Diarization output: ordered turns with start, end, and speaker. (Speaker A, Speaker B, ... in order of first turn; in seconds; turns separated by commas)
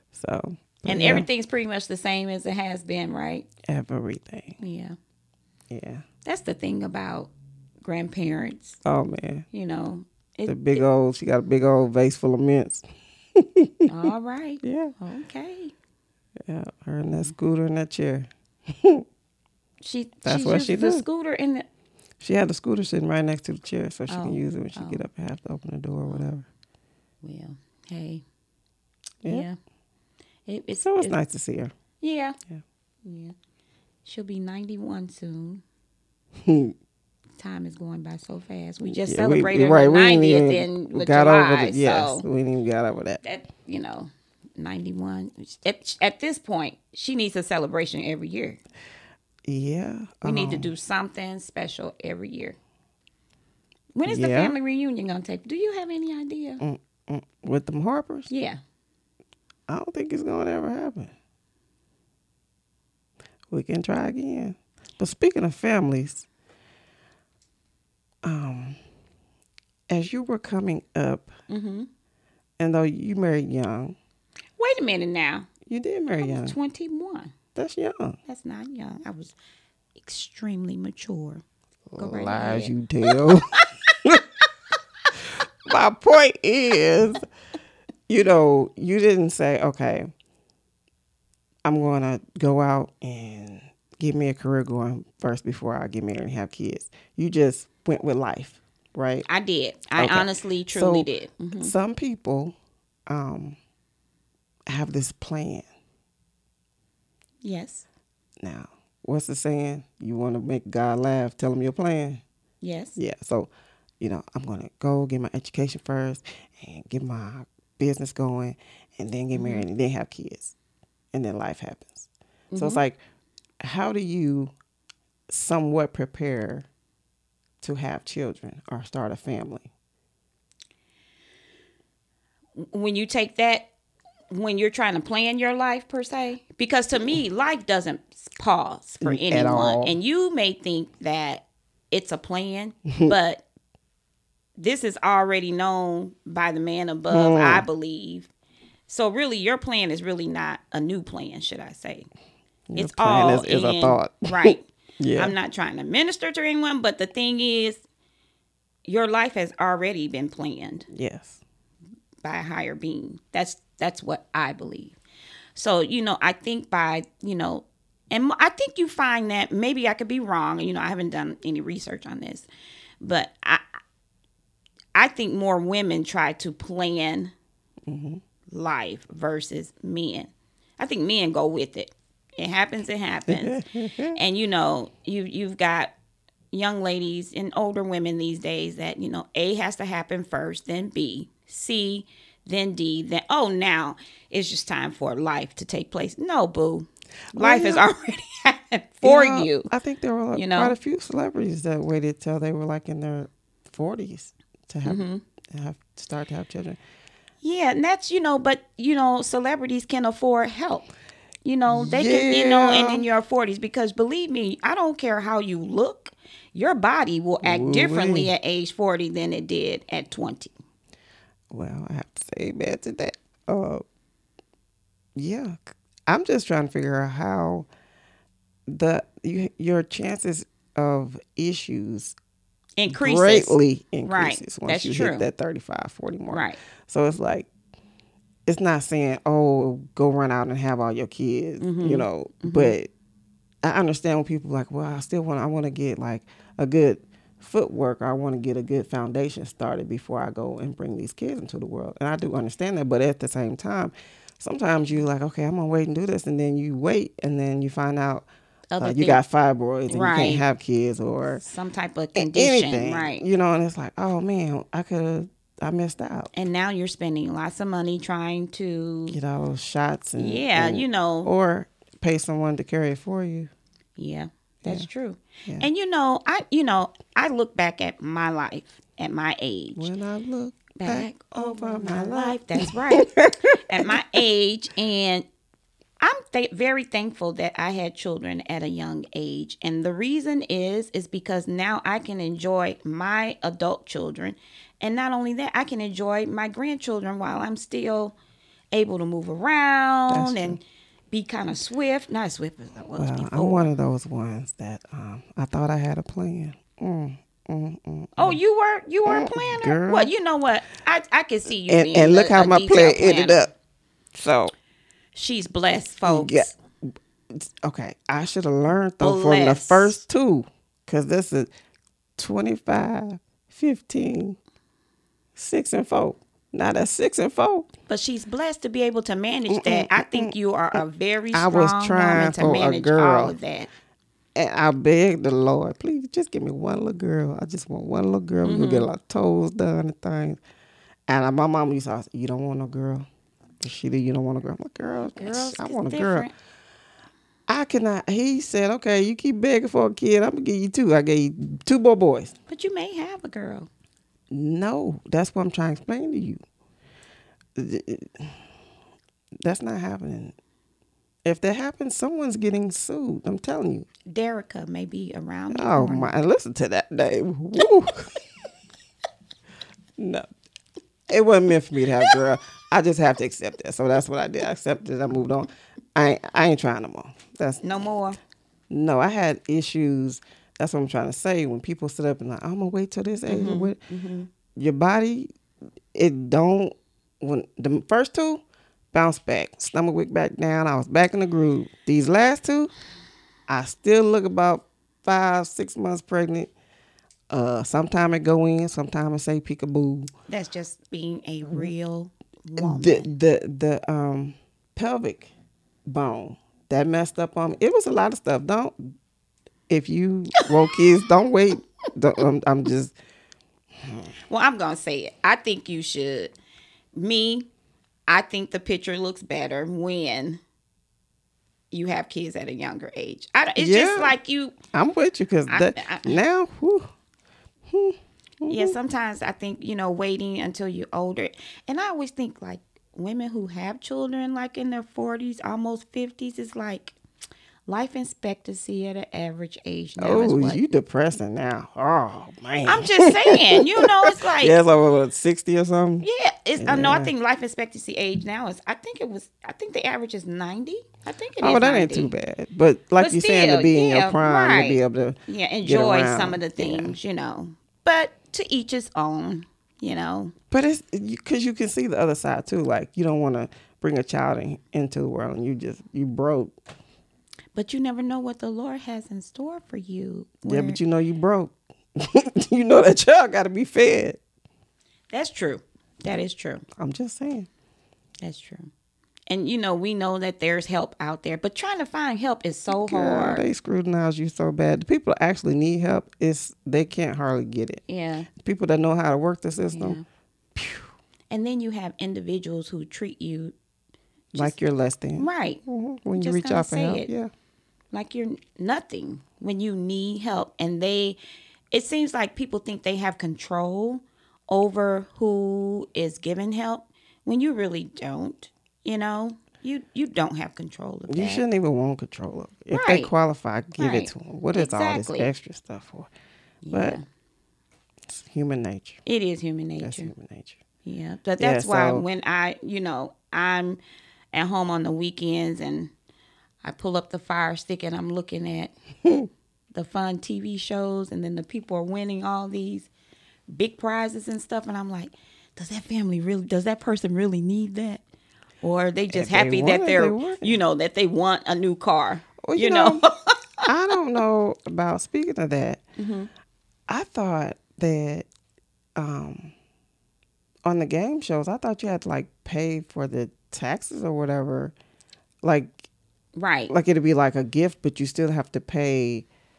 Speaker A: 0.1-1.3, Speaker B: 0.8-3.5, Speaker A: 3.6-4.6, Speaker B: 4.6-5.0, Speaker A: 5.7-6.0, Speaker B: 6.2-7.3, Speaker B: 7.8-8.8, Speaker A: 8.8-9.4, Speaker B: 9.5-10.8, Speaker A: 10.5-12.8, Speaker A: 13.3-13.9, Speaker B: 13.9-15.7, Speaker A: 14.6-14.9, Speaker A: 16.4-19.0, Speaker B: 19.8-21.7, Speaker A: 20.2-21.0, Speaker A: 22.2-26.5, Speaker B: 24.1-25.0, Speaker B: 27.2-28.2, Speaker B: 29.2-29.6, Speaker B: 30.5-31.1, Speaker A: 30.8-31.7, Speaker B: 32.0-32.4, Speaker B: 33.0-33.3, Speaker B: 34.0-35.6, Speaker A: 36.4-36.7, Speaker B: 37.4-42.2, Speaker A: 39.0-43.2, Speaker B: 43.2-48.6, Speaker A: 49.5-50.7, Speaker B: 50.2-52.6, Speaker B: 53.9-56.6, Speaker A: 54.0-54.5, Speaker A: 56.6-58.3, Speaker B: 58.3-58.6, Speaker A: 59.7-61.1, Speaker A: 63.5-66.2, Speaker A: 68.2-68.8, Speaker A: 69.9-71.3, Speaker B: 71.5-71.9, Speaker A: 72.6-74.0, Speaker B: 74.6-75.5, Speaker A: 75.7-76.5, Speaker B: 76.2-77.3, Speaker A: 77.5-78.2, Speaker B: 78.3-79.3, Speaker B: 80.0-81.4, Speaker A: 81.9-84.2, Speaker B: 82.0-83.9, Speaker A: 85.6-87.2, Speaker A: 88.1-90.1, Speaker A: 91.6-99.2, Speaker B: 99.2-101.7, Speaker A: 100.0-102.5, Speaker A: 103.1-103.6, Speaker A: 104.7-105.7, Speaker B: 107.4-107.8, Speaker A: 108.4-112.2, Speaker B: 112.6-113.0, Speaker A: 113.0-120.5, Speaker B: 119.3-119.7, Speaker A: 121.1-123.0, Speaker B: 122.5-122.8, Speaker A: 123.6-124.5, Speaker A: 125.3-126.7, Speaker A: 127.6-129.7, Speaker B: 132.6-133.7, Speaker B: 134.3-143.4, Speaker A: 139.0-140.0, Speaker A: 142.9-143.1, Speaker B: 144.6-148.3, Speaker A: 147.1-147.7, Speaker B: 148.9-152.1, Speaker A: 152.7-155.3, Speaker B: 152.7-157.8, Speaker B: 158.9-160.9, Speaker A: 160.9-161.4, Speaker B: 162.2-164.9, Speaker B: 165.6-172.5, Speaker B: 173.0-173.6, Speaker B: 174.9-177.3, Speaker A: 177.9-178.2, Speaker B: 178.5-183.6, Speaker A: 183.3-184.2, Speaker B: 184.1-185.9, Speaker B: 186.5-199.7, Speaker A: 197.3-197.8, Speaker A: 199.0-206.8, Speaker B: 200.3-200.8, Speaker B: 204.8-205.2, Speaker B: 207.4-210.9, Speaker B: 211.4-220.5, Speaker A: 211.7-213.1, Speaker A: 217.4-218.3, Speaker A: 221.5-223.8, Speaker A: 225.2-227.7, Speaker A: 228.7-232.1, Speaker B: 232.8-235.3, Speaker A: 232.9-237.5, Speaker B: 236.3-236.6, Speaker A: 238.4-242.9, Speaker B: 241.6-242.7, Speaker A: 243.6-258.3, Speaker B: 258.7-259.2, Speaker A: 258.8-261.4, Speaker B: 259.9-260.4, Speaker B: 261.4-263.2, Speaker A: 262.1-266.3, Speaker B: 266.3-269.2, Speaker A: 269.1-273.5, Speaker B: 270.2-271.3, Speaker B: 274.0-279.9, Speaker A: 279.8-284.2, Speaker B: 280.8-285.2, Speaker B: 286.0-298.1, Speaker B: 298.7-303.7, Speaker A: 300.1-300.6, Speaker A: 302.9-308.4, Speaker B: 308.1-313.5, Speaker A: 309.1-310.1, Speaker A: 311.7-313.5, Speaker A: 314.1-314.5, Speaker B: 315.1-316.5, Speaker A: 316.1-316.5, Speaker A: 317.3-321.5, Speaker B: 319.0-320.0, Speaker A: 322.2-324.4, Speaker A: 325.4-327.7, Speaker B: 327.9-333.7, Speaker A: 329.5-330.8, Speaker A: 331.3-333.3, Speaker A: 334.3-340.4, Speaker B: 338.4-338.9, Speaker A: 341.1-343.1, Speaker A: 343.6-346.3, Speaker B: 345.1-346.3, Speaker A: 347.5-352.3, Speaker B: 352.5-353.7, Speaker A: 354.3-356.4, Speaker A: 357.6-358.4, Speaker A: 359.4-360.3, Speaker A: 361.2-363.9, Speaker B: 364.1-366.1, Speaker A: 365.5-368.1, Speaker A: 370.0-370.3, Speaker A: 371.1-377.6, Speaker B: 377.6-378.2, Speaker A: 378.7-383.8, Speaker B: 383.3-384.3, Speaker A: 384.6-385.3, Speaker A: 385.9-388.4, Speaker A: 388.9-392.7, Speaker A: 393.5-396.5, Speaker A: 397.3-400.1, Speaker B: 400.3-403.1, Speaker A: 402.6-405.3, Speaker A: 405.9-408.9, Speaker A: 409.7-412.9, Speaker A: 413.8-414.1, Speaker B: 414.3-416.3, Speaker B: 416.9-417.5, Speaker B: 418.1-420.4, Speaker B: 421.7-424.5, Speaker A: 423.6-424.1, Speaker A: 424.7-426.9, Speaker B: 425.5-426.2, Speaker A: 427.7-428.7, Speaker B: 428.5-436.9, Speaker B: 437.7-440.6, Speaker A: 440.0-446.1, Speaker B: 442.6-444.6, Speaker B: 446.0-452.1, Speaker A: 446.6-447.1, Speaker A: 451.4-457.0, Speaker B: 453.0-460.3, Speaker A: 460.5-466.5, Speaker B: 467.5-470.8, Speaker A: 470.4-474.2, Speaker B: 475.1-476.6, Speaker A: 476.8-477.5, Speaker B: 478.2-478.7, Speaker B: 479.3-483.5, Speaker A: 482.7-487.8, Speaker B: 487.9-488.3, Speaker A: 488.3-490.0, Speaker B: 489.7-490.0, Speaker A: 490.5-490.9, Speaker B: 491.3-493.5, Speaker A: 494.3-497.3, Speaker B: 495.2-495.6, Speaker B: 496.1-497.1, Speaker B: 497.9-501.2, Speaker B: 501.7-511.4, Speaker A: 511.1-516.1, Speaker B: 512.7-513.1, Speaker B: 513.8-515.3, Speaker B: 516.6-517.0, Speaker A: 516.7-517.0, Speaker A: 518.1-519.0, Speaker B: 519.0-520.1, Speaker A: 519.8-520.6, Speaker B: 520.8-523.8, Speaker A: 521.4-522.0, Speaker B: 524.3-525.9, Speaker B: 526.6-528.7, Speaker B: 529.7-532.9, Speaker B: 533.5-538.0, Speaker B: 538.6-543.6, Speaker A: 539.1-540.6, Speaker A: 542.4-543.0, Speaker A: 543.6-545.8, Speaker B: 546.0-546.3, Speaker A: 546.9-548.3, Speaker A: 549.0-549.5, Speaker A: 550.6-554.7, Speaker A: 555.4-555.9, Speaker B: 556.3-556.7, Speaker A: 556.7-559.2